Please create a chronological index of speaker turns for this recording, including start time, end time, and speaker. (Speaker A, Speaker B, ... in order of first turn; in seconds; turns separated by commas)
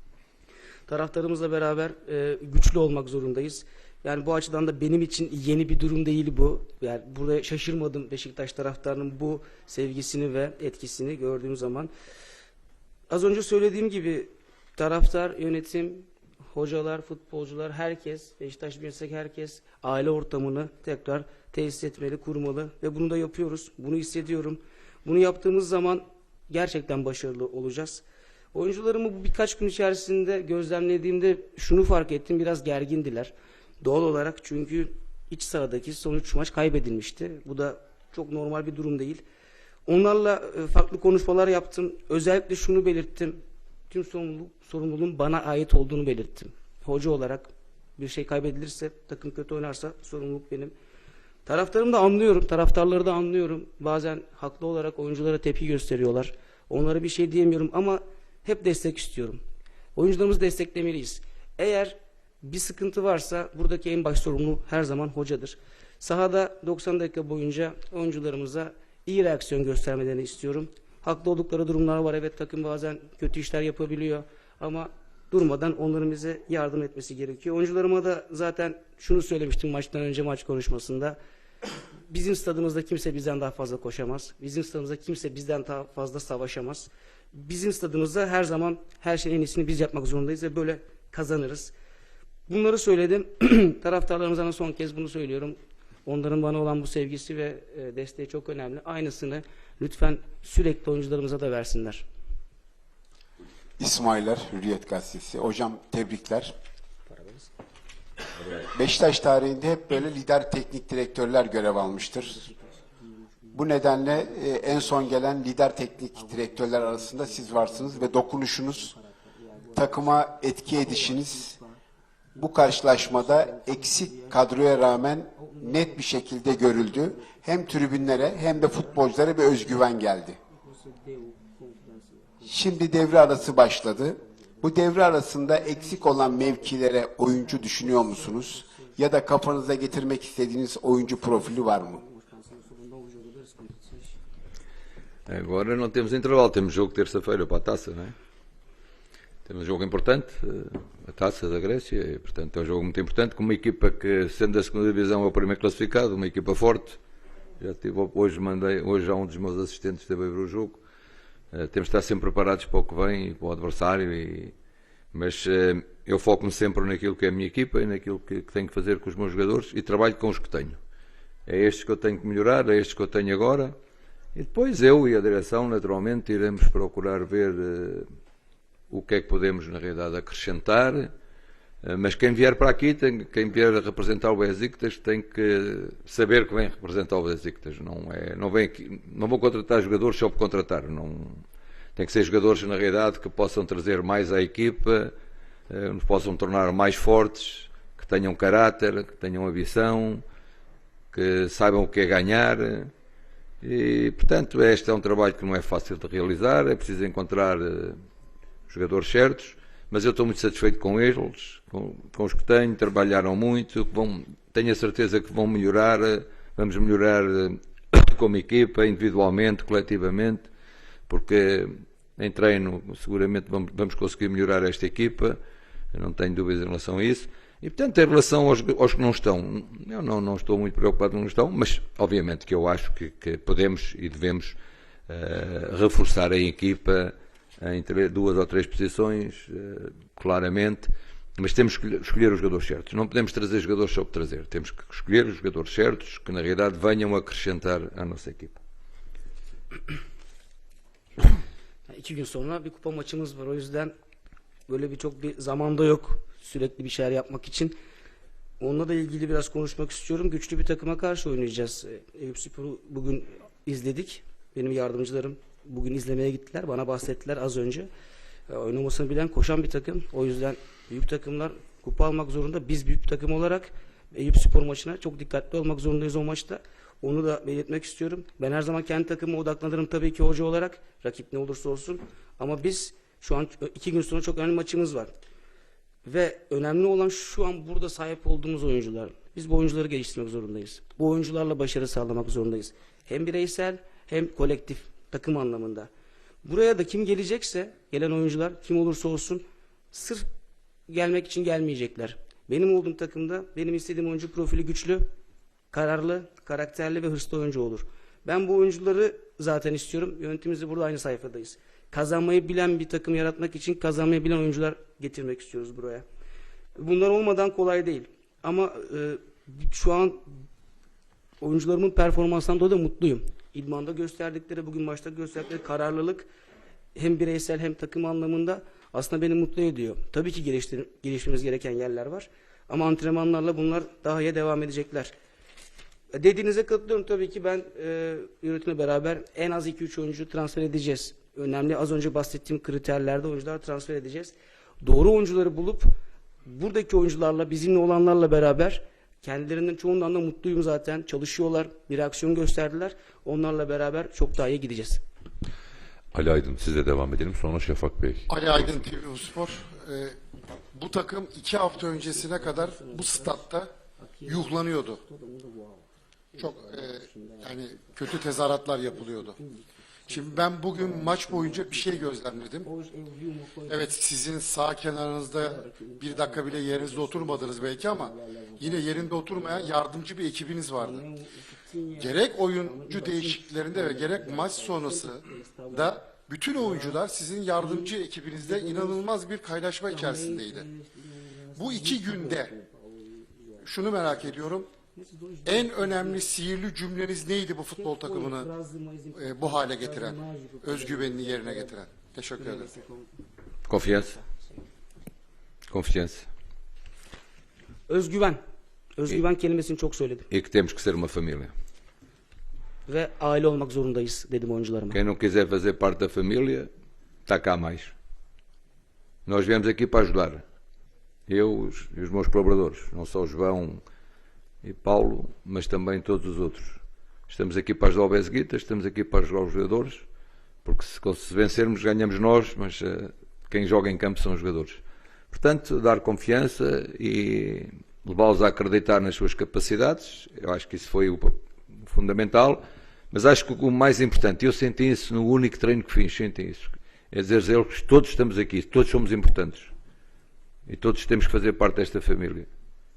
Speaker A: 0.9-11.9, Speaker A: 13.1-39.2, Speaker A: 39.9-50.8, Speaker A: 51.5-59.4, Speaker A: 60.0-81.2, Speaker A: 82.1-91.7, Speaker A: 92.5-102.1, Speaker B: 103.8-106.5, Speaker A: 107.1-107.5, Speaker B: 108.5-112.5, Speaker A: 111.7-115.2, Speaker B: 113.5-118.9, Speaker A: 116.1-121.8, Speaker B: 119.7-121.6, Speaker A: 122.3-129.9, Speaker B: 122.4-130.4, Speaker A: 130.5-140.1, Speaker B: 132.4-142.0, Speaker A: 140.9-144.2, Speaker C: 145.3-148.2, Speaker C: 149.4-157.0, Speaker C: 157.6-160.8, Speaker C: 161.5-164.5, Speaker C: 165.1-170.8, Speaker C: 171.4-173.7, Speaker C: 174.3-178.1, Speaker C: 178.9-181.1, Speaker C: 181.8-191.4, Speaker C: 191.9-195.1, Speaker C: 195.7-200.2, Speaker C: 201.1-202.9, Speaker C: 203.6-208.0, Speaker C: 208.7-220.5, Speaker C: 221.1-225.4, Speaker C: 225.9-234.6, Speaker C: 235.1-248.6, Speaker A: 251.9-253.9, Speaker A: 254.7-257.7, Speaker A: 258.6-267.9, Speaker A: 268.5-285.1, Speaker A: 286.1-295.9, Speaker A: 296.4-300.3, Speaker A: 300.9-305.1, Speaker A: 305.7-316.1, Speaker A: 316.8-320.3, Speaker A: 321.4-326.3, Speaker A: 326.9-335.1, Speaker A: 336.1-345.9, Speaker A: 346.4-355.0, Speaker D: 356.1-358.8, Speaker E: 358.3-360.2, Speaker E: 360.7-363.7, Speaker A: 361.7-367.8, Speaker E: 364.2-365.0, Speaker E: 366.4-369.4, Speaker A: 368.9-373.9, Speaker E: 370.1-372.7, Speaker E: 373.7-381.0, Speaker A: 375.4-379.9, Speaker A: 380.8-387.0, Speaker E: 382.0-390.7, Speaker A: 387.6-389.1, Speaker A: 389.9-396.3, Speaker E: 391.6-392.5, Speaker E: 393.6-394.7, Speaker E: 395.4-398.5, Speaker A: 397.8-401.8, Speaker E: 399.1-402.7, Speaker A: 402.3-403.1, Speaker C: 403.7-404.1, Speaker A: 404.1-404.6, Speaker C: 405.7-406.3, Speaker A: 407.9-408.4, Speaker A: 409.0-410.3, Speaker C: 410.3-411.5, Speaker A: 412.9-415.0, Speaker C: 414.9-416.7, Speaker C: 417.2-417.9, Speaker C: 419.2-420.4, Speaker C: 421.3-423.8, Speaker C: 424.6-430.1, Speaker C: 430.6-449.7, Speaker C: 450.7-452.5